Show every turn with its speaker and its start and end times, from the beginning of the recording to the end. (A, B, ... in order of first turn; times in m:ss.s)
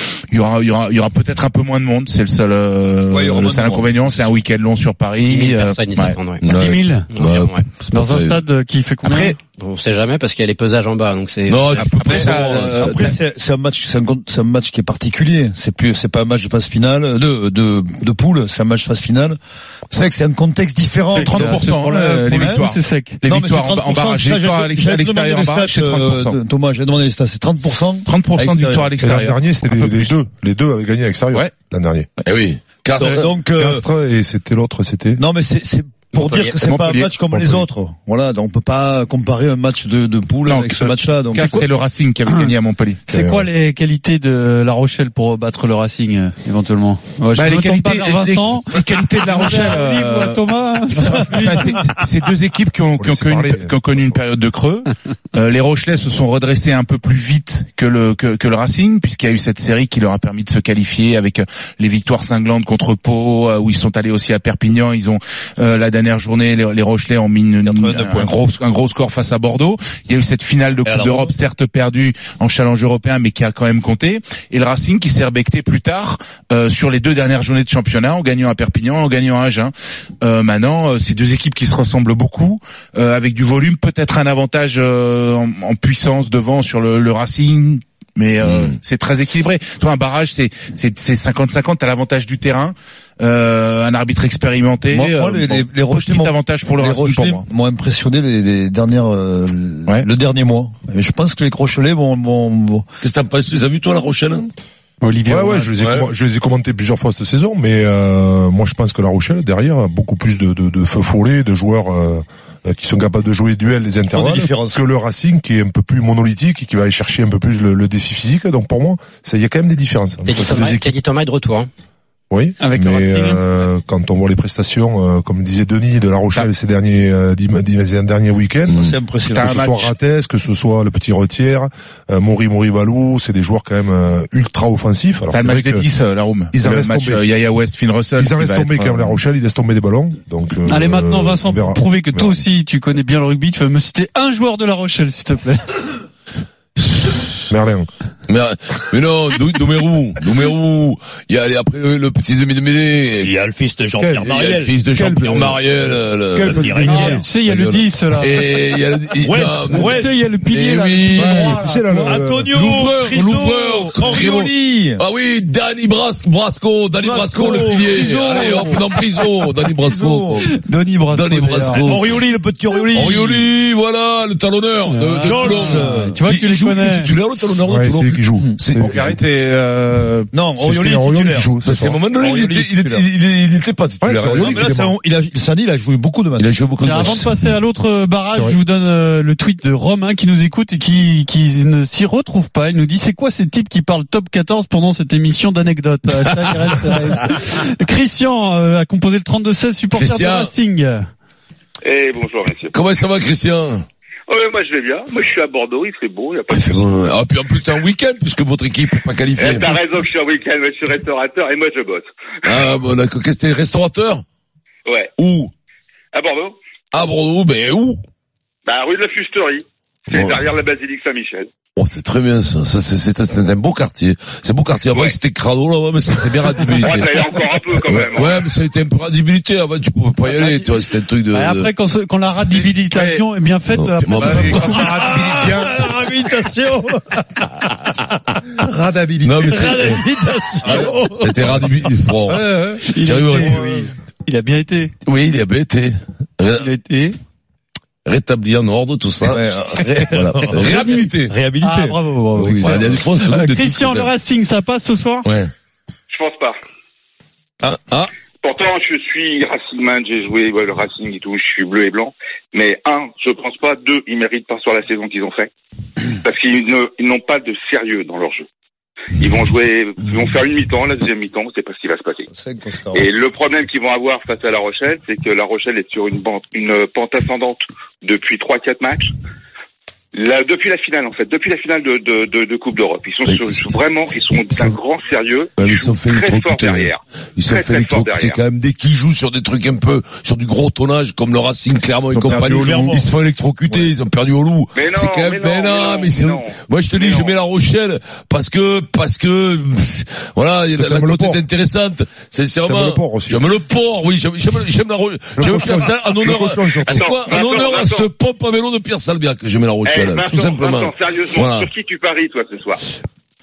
0:00.3-0:06.2 A
0:03.1-0:04.4 B
0:05.3-0:06.5 C
0:06.4-0:08.4 D
0:06.5-0:07.1 E
0:07.1-0:07.7 C
0:07.9-0:09.4 E
0:09.0-0:09.4 A
0:09.6-0:11.9 C
0:11.5-0:12.9 D
0:11.7-0:13.2 A
0:12.0-0:19.4 B
0:19.9-0:21.7 B
0:21.1-0:26.4 A
0:21.2-0:23.2 E
0:22.3-0:22.6 B
0:23.2-0:29.0 B
0:28.1-0:30.2 A
0:29.0-0:32.1 F
0:32.2-0:33.3 D
0:33.0-0:33.8 B
0:33.5-0:35.2 F
0:35.2-0:41.7 B
0:36.2-0:36.6 C
0:36.6-0:37.2 A
0:37.4-0:37.7 F
0:40.4-0:43.0 A
0:42.3-0:42.5 E
0:43.1-0:43.5 F
0:43.1-0:51.8 E
0:47.4-1:37.4 A
0:53.0-0:53.8 F
1:07.6-1:08.5 B
1:10.8-1:11.3 B
1:28.4-1:28.8 D
1:34.9-1:42.9 B
1:43.0-1:44.5 D
1:45.0-1:45.7 E
1:45.3-2:00.9 F
1:45.8-1:46.1 D
1:54.1-1:54.8 B
2:00.3-2:01.7 C
2:02.3-2:15.9 F
2:02.6-2:03.4 E
2:08.7-2:09.0 D
2:08.8-2:09.6 B
2:09.3-2:10.0 A
2:15.3-2:19.2 A
2:16.5-2:17.2 F
2:18.2-2:22.4 F
2:20.7-2:25.6 E
2:27.5-2:27.9 F
2:28.3-2:33.3 D
2:33.2-2:35.1 B
2:34.0-2:35.6 F
2:34.2-2:41.6 D
2:36.4-2:37.2 B
2:36.5-2:36.8 F
2:36.8-2:38.5 E
2:39.2-2:40.1 B
2:39.6-2:42.2 E
2:41.2-2:42.5 F
2:42.0-2:45.0 B
2:42.5-2:52.2 D
2:47.0-2:50.4 B
2:50.4-2:51.9 E
2:51.8-2:53.5 B
2:52.9-2:59.0 D
2:54.9-2:57.1 E
2:55.2-2:56.2 B
2:57.6-2:59.2 F
2:58.8-3:00.3 A
3:00.3-3:01.5 B
3:00.6-3:02.0 F
3:01.6-3:04.7 D
3:02.1-3:03.0 B
3:04.0-3:05.0 F
3:04.4-3:07.2 B
3:06.4-3:07.3 D
3:06.8-3:21.1 E
3:20.0-3:20.5 D
3:21.8-3:22.7 G
3:22.7-3:23.9 D
3:24.3-3:26.9 G
3:26.5-3:29.9 D
3:29.4-3:32.6 G
3:32.4-3:34.2 D
3:35.2-3:35.5 D
3:36.1-3:36.6 G
3:36.9-3:38.0 D
3:38.7-3:41.5 G
3:40.1-3:40.5 D
3:41.8-3:51.7 D
3:46.7-3:48.4 G
3:50.3-3:50.7 E
3:51.3-3:55.2 E
3:52.9-3:53.2 A
3:53.7-3:54.7 D
3:54.2-3:55.8 A
3:54.6-3:57.5 B
3:58.6-4:02.8 B
3:59.2-4:00.1 D
4:00.6-4:03.7 D
4:02.8-4:05.0 E
4:03.4-4:03.9 B
4:05.1-4:06.7 D
4:06.5-4:07.2 E
4:08.0-4:11.4 D
4:09.3-4:13.0 B
4:11.6-4:15.3 E
4:12.4-4:14.1 D
4:15.3-4:15.5 D
4:16.1-4:16.6 G
4:17.6-4:18.1 D
4:18.4-4:25.5 G
4:26.2-4:28.5 G
4:29.2-4:32.2 G
4:32.3-4:33.1 B
4:32.9-4:39.1 G
4:40.1-4:48.4 G
4:43.2-4:43.7 D
4:44.5-4:44.8 D
4:45.6-5:11.7 D
4:52.2-4:52.9 A
4:52.2-4:53.1 B
4:54.8-4:57.4 G
5:00.8-5:01.4 F
5:02.6-5:03.5 F
5:05.4-5:07.2 F
5:06.3-5:08.1 G
5:09.8-5:12.8 G